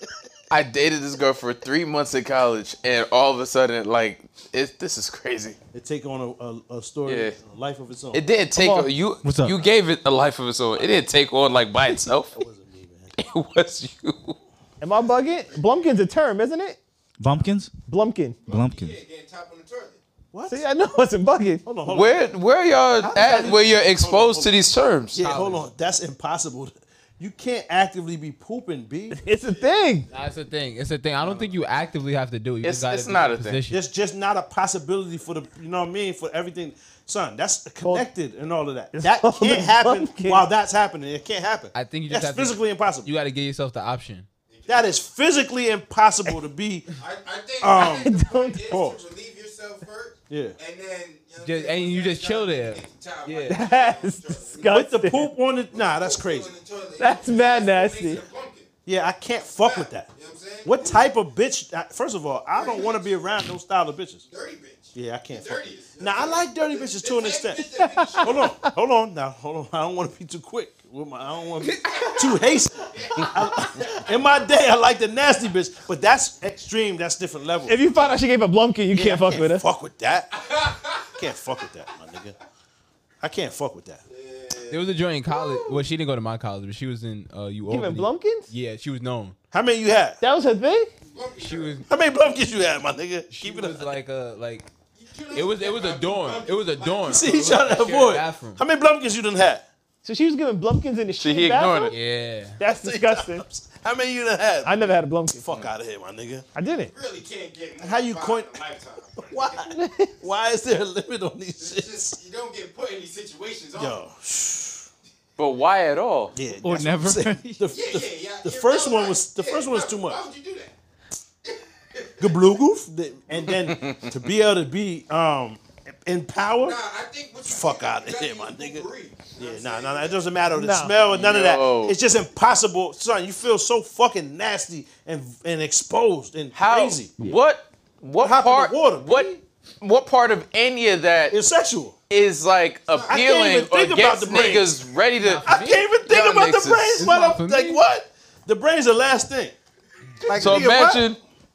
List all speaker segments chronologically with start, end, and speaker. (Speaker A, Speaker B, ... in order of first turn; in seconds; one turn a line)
Speaker A: 0.5-5.6
Speaker B: 5.7-8.2
Speaker A: 7.0-7.3
Speaker A: 8.1-12.4
Speaker C: 8.6-8.9
Speaker D: 9.2-9.6
Speaker B: 12.3-13.1
Speaker A: 13.2-14.4
Speaker C: 14.8-16.8
Speaker D: 17.2-17.7
Speaker C: 17.9-18.4
Speaker D: 18.5-19.0
Speaker E: 18.6-19.9
Speaker B: 20.3-21.0
Speaker C: 20.5-21.6
Speaker B: 21.6-22.2
Speaker A: 21.9-25.3
Speaker B: 23.0-24.5
Speaker B: 25.1-29.3
Speaker F: 25.2-25.6
Speaker C: 29.2-30.1
Speaker F: 30.1-33.8
Speaker B: 31.2-31.5
Speaker A: 32.6-33.6
Speaker B: 33.7-43.1
Speaker C: 39.0-40.5
Speaker F: 41.7-44.3
Speaker B: 44.7-46.9
Speaker E: 47.0-54.6
Speaker B: 47.6-48.1
Speaker C: 47.8-48.8
Speaker B: 48.7-49.0
Speaker B: 50.3-50.6
Speaker F: 51.4-53.6
Speaker C: 53.5-55.3
Speaker B: 54.7-56.5
Speaker E: 55.7-58.7
Speaker C: 57.0-58.2
Speaker B: 58.9-60.1
Speaker E: 59.6-61.0
Speaker B: 60.6-64.2
Speaker E: 62.5-63.1
Speaker E: 64.3-68.2
Speaker B: 64.9-67.7
Speaker C: 67.8-68.7
Speaker B: 68.2-77.8
Speaker C: 77.7-79.6
Speaker B: 78.9-80.3
Speaker B: 81.1-82.3
Speaker B: 83.2-84.0
Speaker E: 84.1-84.8
Speaker F: 84.7-89.4
Speaker C: 85.3-85.6
Speaker C: 87.7-88.5
Speaker B: 89.5-90.2
Speaker C: 90.2-90.9
Speaker E: 91.1-91.6
Speaker F: 91.4-91.8
Speaker B: 91.8-93.9
Speaker F: 93.3-94.7
Speaker E: 95.0-97.5
Speaker F: 95.3-98.6
Speaker B: 97.0-99.7
Speaker C: 100.0-101.9
Speaker A: 101.2-101.9
Speaker F: 101.9-102.6
Speaker C: 102.6-103.4
Speaker B: 102.8-104.8
Speaker C: 104.6-105.5
Speaker B: 105.4-106.5
Speaker C: 106.5-106.9
Speaker E: 106.9-109.5
Speaker B: 107.8-108.5
Speaker B: 109.2-112.2
Speaker C: 109.7-110.0
Speaker E: 111.6-113.9
Speaker B: 113.8-114.9
Speaker A: 115.4-116.3
Speaker B: 116.3-120.2
Speaker D: 116.6-117.6
Speaker E: 117.7-120.7
Speaker E: 121.9-122.2
Speaker B: 122.2-126.8
Speaker E: 126.6-130.0
Speaker B: 127.4-128.8
Speaker B: 129.4-137.2
Speaker C: 130.5-130.9
Speaker A: 131.1-131.9
Speaker A: 136.5-141.3
Speaker B: 138.2-139.4
Speaker B: 141.3-142.0
Speaker A: 142.1-147.2
Speaker B: 143.1-144.8
Speaker F: 145.2-145.9
Speaker B: 145.4-149.5
Speaker F: 147.0-147.8
Speaker B: 150.2-151.1
Speaker A: 150.3-151.2